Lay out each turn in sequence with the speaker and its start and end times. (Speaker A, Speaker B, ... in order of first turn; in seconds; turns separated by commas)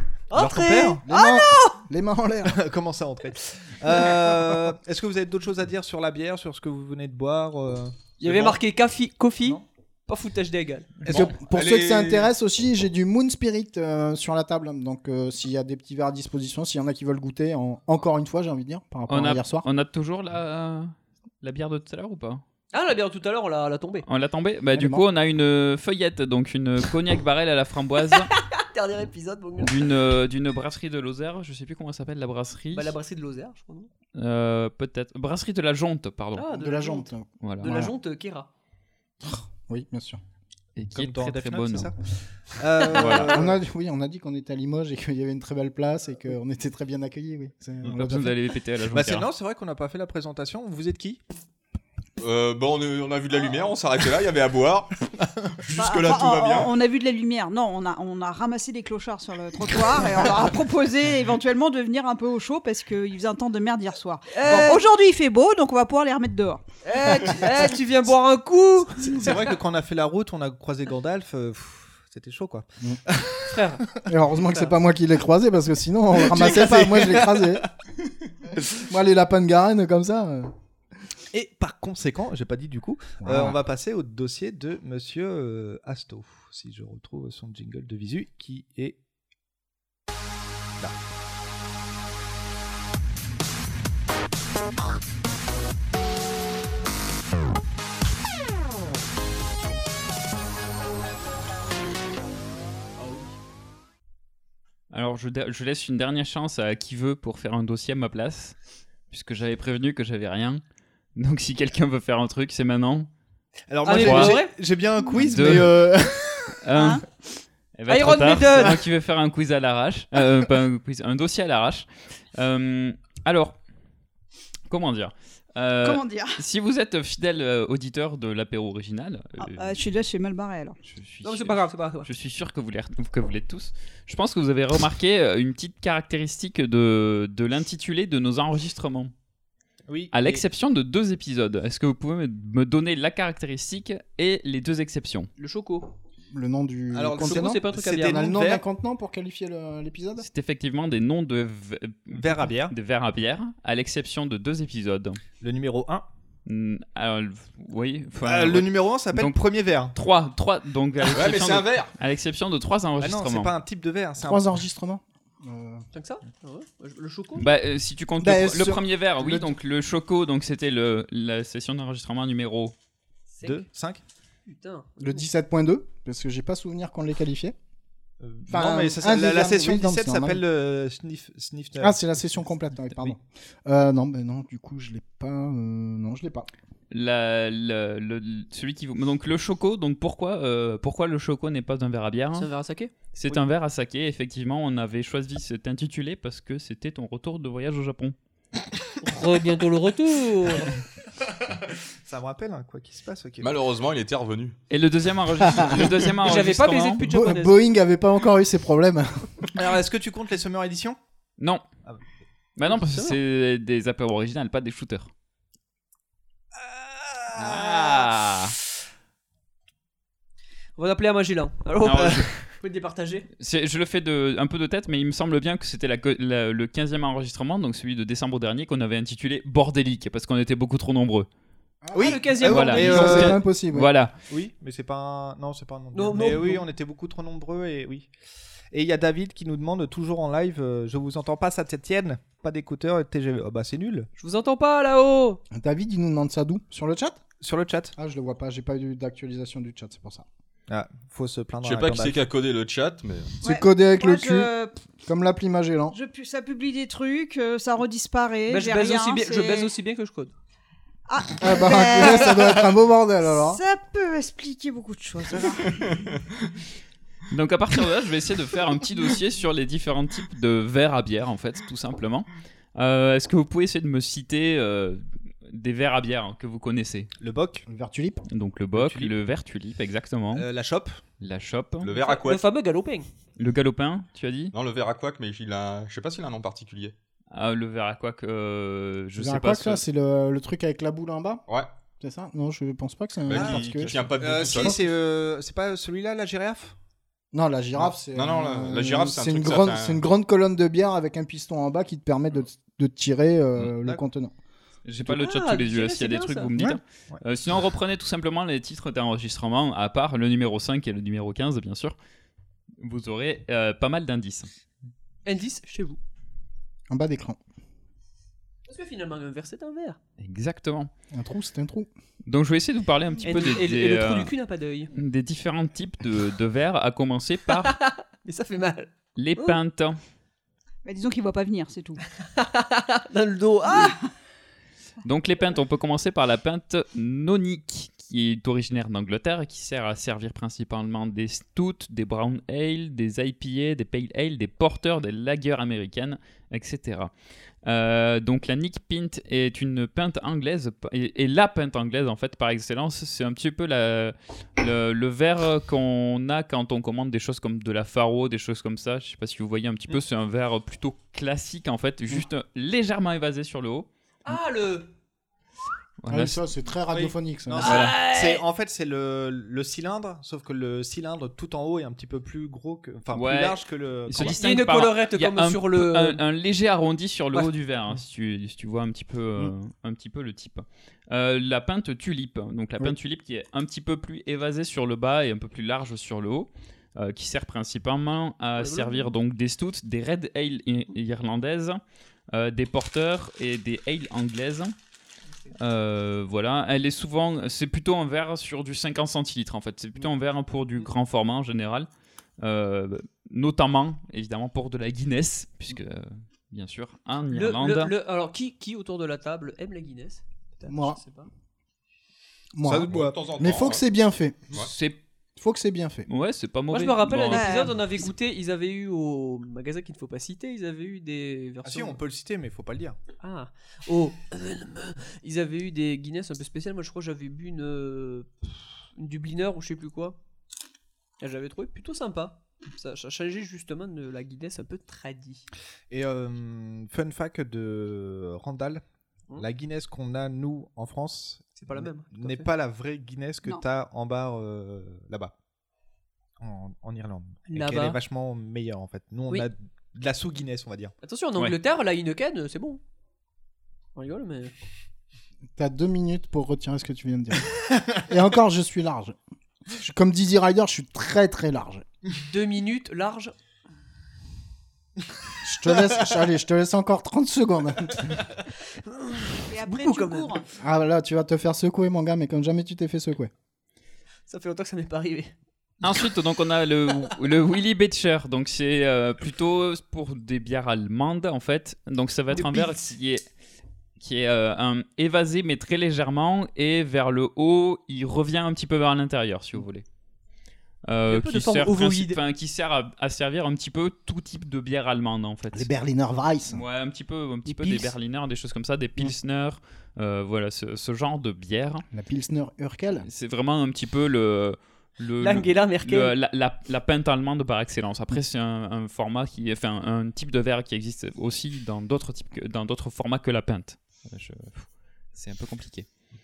Speaker A: 0.3-1.7, Speaker B: 0.3-1.0, Speaker C: 1.1-2.6, Speaker B: 2.5-8.6, Speaker A: 8.2-11.0, Speaker D: 11.1-12.3, Speaker C: 11.1-19.7, Speaker E: 19.1-22.4, Speaker A: 22.7-24.1, Speaker E: 24.1-28.3, Speaker C: 24.7-25.1, Speaker A: 28.1-29.9, Speaker E: 29.6-32.9, Speaker A: 32.7-33.9, Speaker E: 34.1-36.5, Speaker A: 36.4-38.5, Speaker C: 36.5-37.9, Speaker E: 37.4-37.8, Speaker C: 39.2-40.2, Speaker E: 40.8-41.9, Speaker B: 41.0-43.6, Speaker E: 42.9-43.3, Speaker C: 43.2-48.4, Speaker E: 47.8-49.3, Speaker B: 48.9-51.2, Speaker D: 52.2-55.0, Speaker D: 55.6-56.8, Speaker F: 55.8-66.6, Speaker A: 64.3-64.8, Speaker A: 66.8-69.5, Speaker B: 69.0-73.6, Speaker A: 73.5-73.9, Speaker C: 74.1-77.7, Speaker A: 74.4-74.8, Speaker B: 76.2-77.7, Speaker C: 78.8-80.5, Speaker B: 81.3-89.0, Speaker C: 83.2-83.6, Speaker E: 104.9-108.6, Speaker E: 109.1-110.6, Speaker E: 111.2-113.1, Speaker B: 113.7-116.6, Speaker A: 113.8-114.6, Speaker E: 114.0-114.4, Speaker E: 115.1-115.8, Speaker E: 116.6-117.0, Speaker F: 116.7-117.0, Speaker E: 117.8-123.6, Speaker A: 117.9-118.8, Speaker E: 124.7-129.8, Speaker F: 125.8-126.4, Speaker F: 129.6-130.8, Speaker E: 130.8-139.1, Speaker A: 131.2-132.1, Speaker B: 139.9-140.4, Speaker E: 140.1-145.3, Speaker A: 145.4-145.9, Speaker C: 146.3-150.2, Speaker B: 146.9-148.6, Speaker A: 147.2-148.2, Speaker E: 150.2-155.2, Speaker B: 152.1-152.7, Speaker B: 155.4-156.1, Speaker E: 156.5-159.4, Speaker B: 158.2-159.9, Speaker E: 159.9-163.5, Speaker D: 161.1-161.9, Speaker B: 163.0-164.4, Speaker C: 164.2-165.8, Speaker A: 165.9-167.5, Speaker E: 167.4-172.7, Speaker C: 168.2-169.5, Speaker A: 173.3-173.7, Speaker B: 173.4-174.0, Speaker A: 174.5-175.3, Speaker C: 175.0-177.6, Speaker B: 178.2-183.1, Speaker C: 178.5-180.4, Speaker C: 181.8-186.5, Speaker E: 186.9-192.5, Speaker A: 192.3-192.9, Speaker E: 193.1-198.2, Speaker A: 199.0-200.7, Speaker B: 202.0-203.6, Speaker D: 203.4-204.6, Speaker E: 204.7-207.1, Speaker C: 205.5-205.9, Speaker A: 206.2-207.6, Speaker C: 207.0-209.3, Speaker B: 209.6-211.0, Speaker E: 211.4-211.7, Speaker E: 212.6-215.1, Speaker A: 212.7-213.2, Speaker B: 216.6-218.1, Speaker E: 217.3-218.5, Speaker A: 220.8-223.3, Speaker E: 221.8-222.3, Speaker E: 223.4-231.3, Speaker C: 231.8-233.9, Speaker B: 231.9-233.4, Speaker A: 231.9-233.2, Speaker E: 232.5-234.1, Speaker B: 234.3-238.1, Speaker A: 235.9-236.7, Speaker B: 238.7-244.1, Speaker A: 244.2-245.4, Speaker C: 245.5-247.2, Speaker B: 247.4-247.9, Speaker C: 248.0-250.3, Speaker B: 250.7-252.2, Speaker D: 251.6-253.4, Speaker C: 253.4-254.5, Speaker F: 253.4-254.7, Speaker C: 255.1-256.0, Speaker F: 255.9-259.7, Speaker A: 258.5-260.3, Speaker F: 261.1-262.6, Speaker C: 261.4-263.6, Speaker F: 263.3-265.8, Speaker D: 265.6-266.2, Speaker E: 267.3-277.1, Speaker B: 277.2-277.6, Speaker C: 277.7-278.2, Speaker E: 278.3-280.4, Speaker B: 278.8-279.1, Speaker B: 280.3-281.0, Speaker E: 281.2-281.9, Speaker D: 281.8-282.4, Speaker A: 281.9-283.1, Speaker E: 283.4-284.5, Speaker D: 284.5-286.9, Speaker E: 287.3-289.8, Speaker C: 289.2-291.4, Speaker C: 292.0-294.8, Speaker D: 293.3-294.8, Speaker B: 293.3-296.8, Speaker C: 297.3-304.3, Speaker D: 298.1-300.1, Speaker E: 304.9-312.0, Speaker A: 305.1-306.5, Speaker E: 312.8-314.5, Speaker A: 315.2-316.0, Speaker C: 316.9-317.4, Speaker A: 318.7-320.0, Speaker E: 320.2-320.9, Speaker C: 321.1-321.9, Speaker E: 322.3-324.3, Speaker A: 323.2-324.9, Speaker E: 324.9-327.8, Speaker A: 327.5-329.6, Speaker E: 329.2-330.0, Speaker F: 330.9-332.0, Speaker A: 332.4-334.0, Speaker E: 335.1-347.1, Speaker E: 347.6-363.9, Speaker A: 364.2-364.9, Speaker E: 366.0-366.4, Speaker C: 366.1-367.7, Speaker B: 366.9-374.4, Speaker A: 367.6-368.4, Speaker E: 367.6-368.0, Speaker E: 373.1-394.8, Speaker A: 374.2-376.2, Speaker A: 388.6-389.1, Speaker E: 395.6-401.9, Speaker E: 402.4-407.9, Speaker A: 407.3-411.3, Speaker C: 410.7-411.0, Speaker C: 412.6-414.4, Speaker D: 412.7-413.8, Speaker B: 412.8-413.2, Speaker E: 414.5-415.0, Speaker C: 415.4-416.1, Speaker E: 416.1-417.7, Speaker A: 416.7-422.0, Speaker F: 417.3-418.1, Speaker B: 421.6-423.0, Speaker A: 423.2-430.2, Speaker A: 431.2-435.4, Speaker B: 435.9-438.8, Speaker B: 439.4-445.3, Speaker A: 441.6-442.5, Speaker B: 446.4-450.9, Speaker A: 447.5-448.0, Speaker A: 451.0-452.8, Speaker A: 454.0-454.5, Speaker C: 455.6-459.2, Speaker C: 459.7-461.9, Speaker A: 462.3-463.3, Speaker C: 465.4-468.1, Speaker A: 468.9-470.4, Speaker F: 469.5-470.5, Speaker C: 470.6-473.3, Speaker A: 474.3-475.3, Speaker E: 475.8-483.2, Speaker A: 482.4-482.8, Speaker E: 484.0-489.9, Speaker E: 490.9-495.7, Speaker A: 491.1-492.2, Speaker C: 495.5-496.6, Speaker E: 496.5-501.9, Speaker A: 497.6-497.9, Speaker C: 501.9-503.1, Speaker E: 503.0-515.9, Speaker A: 505.2-506.1